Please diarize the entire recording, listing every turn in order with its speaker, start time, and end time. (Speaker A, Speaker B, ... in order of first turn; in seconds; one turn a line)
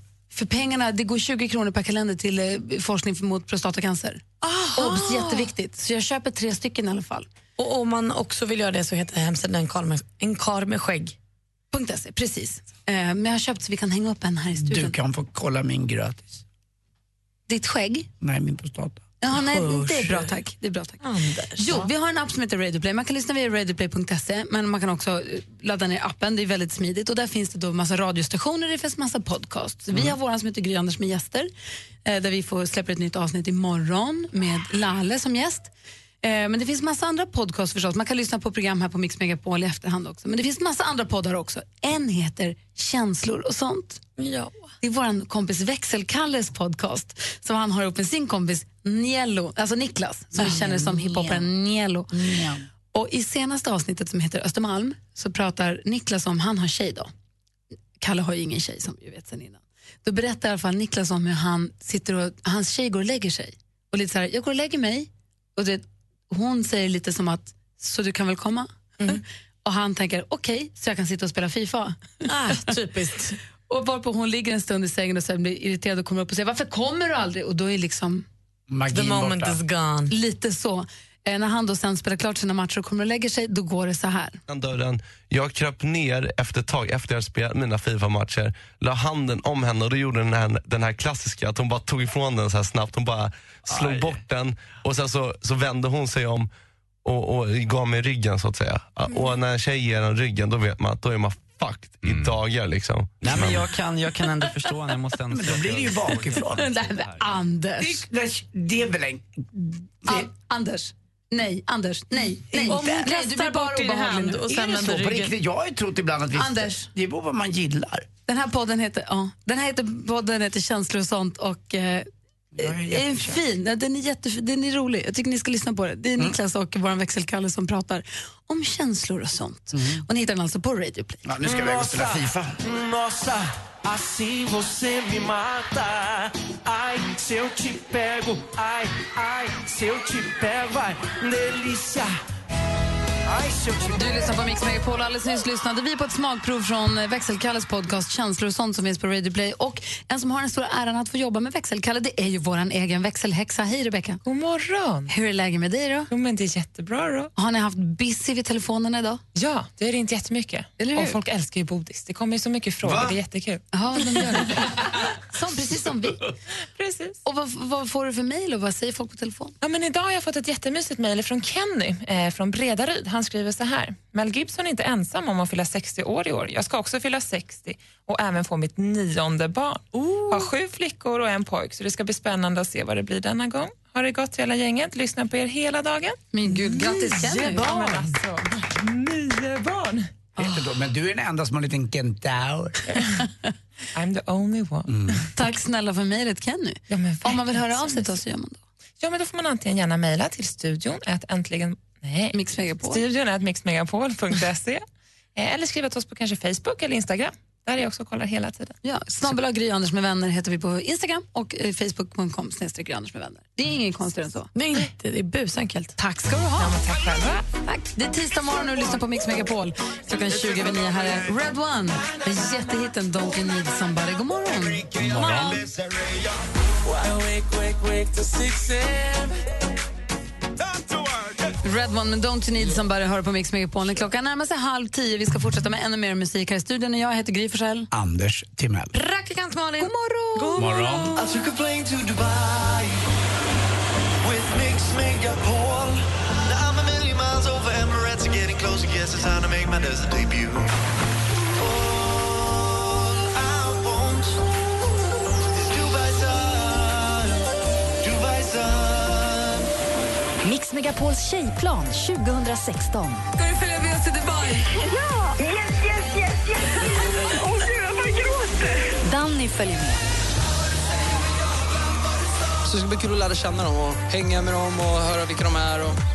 Speaker A: 0.3-7.2
Speaker B: 4.4-5.5
Speaker B: 7.6-11.1
Speaker A: 11.7-14.9
Speaker C: 14.6-16.4
Speaker A: 17.5-18.1
Speaker C: 18.2-19.0
Speaker A: 19.2-21.0
Speaker B: 19.3-20.3
Speaker B: 21.0-21.9
Speaker A: 21.6-31.5
Speaker A: 32.0-35.7
Speaker A: 36.2-44.0
Speaker B: 44.2-44.7
Speaker A: 44.8-52.1
Speaker C: 50.4-51.5
Speaker C: 52.1-52.6
Speaker A: 52.9-57.1
Speaker A: 58.0-72.2
Speaker B: 72.2-73.4
Speaker A: 73.7-78.2
Speaker C: 78.7-79.6
Speaker B: 78.9-80.1
Speaker A: 80.1-84.4
Speaker D: 84.5-96.5
Speaker D: 97.0-103.7
Speaker B: 99.1-99.3
Speaker E: 103.2-106.4
Speaker C: 105.3-106.7
Speaker A: 106.5-108.0
Speaker C: 107.8-110.3
Speaker A: 110.0-114.4
Speaker B: 112.5-115.3
Speaker C: 114.5-118.1
Speaker A: 116.3-116.9
Speaker A: 118.3-122.1
Speaker C: 122.5-123.4
Speaker A: 122.6-131.3
Speaker C: 129.7-130.0
Speaker C: 131.2-132.6
Speaker F: 131.6-131.9
Speaker F: 132.6-142.1
Speaker F: 143.3-143.8
Speaker A: 143.9-154.2
Speaker G: 154.2-155.1
Speaker A: 155.1-156.1
Speaker G: 156.1-157.3
Speaker A: 157.3-159.2
Speaker G: 159.3-163.6
Speaker A: 160.8-161.2
Speaker C: 162.8-163.2
Speaker A: 163.7-166.2
Speaker G: 166.8-167.2
Speaker A: 167.2-169.5
Speaker G: 169.6-186.2
Speaker A: 186.3-188.1
Speaker B: 186.7-187.6
Speaker G: 187.2-190.1
Speaker C: 190.4-192.8
Speaker G: 193.9-194.9
Speaker C: 194.9-195.2
Speaker A: 195.3-198.6
Speaker G: 196.9-198.2
Speaker G: 199.0-204.8
Speaker A: 202.3-203.0
Speaker G: 205.3-208.7
Speaker A: 208.8-214.5
Speaker B: 214.5-215.9
Speaker A: 216.0-216.8
Speaker G: 216.6-217.4
Speaker A: 217.6-224.9
Speaker B: 225.1-225.6
Speaker F: 226.9-229.1
Speaker A: 231.6-237.9
Speaker C: 237.9-238.9
Speaker B: 238.9-241.3
Speaker A: 239.8-240.7
Speaker C: 240.6-241.1
Speaker H: 241.1-243.1
Speaker H: 244.2-250.7
Speaker H: 251.6-254.4
Speaker H: 255.6-257.4
Speaker H: 258.0-259.7
Speaker I: 260.4-263.2
Speaker A: 263.4-264.7
Speaker I: 269.0-270.0
Speaker J: 272.6-276.0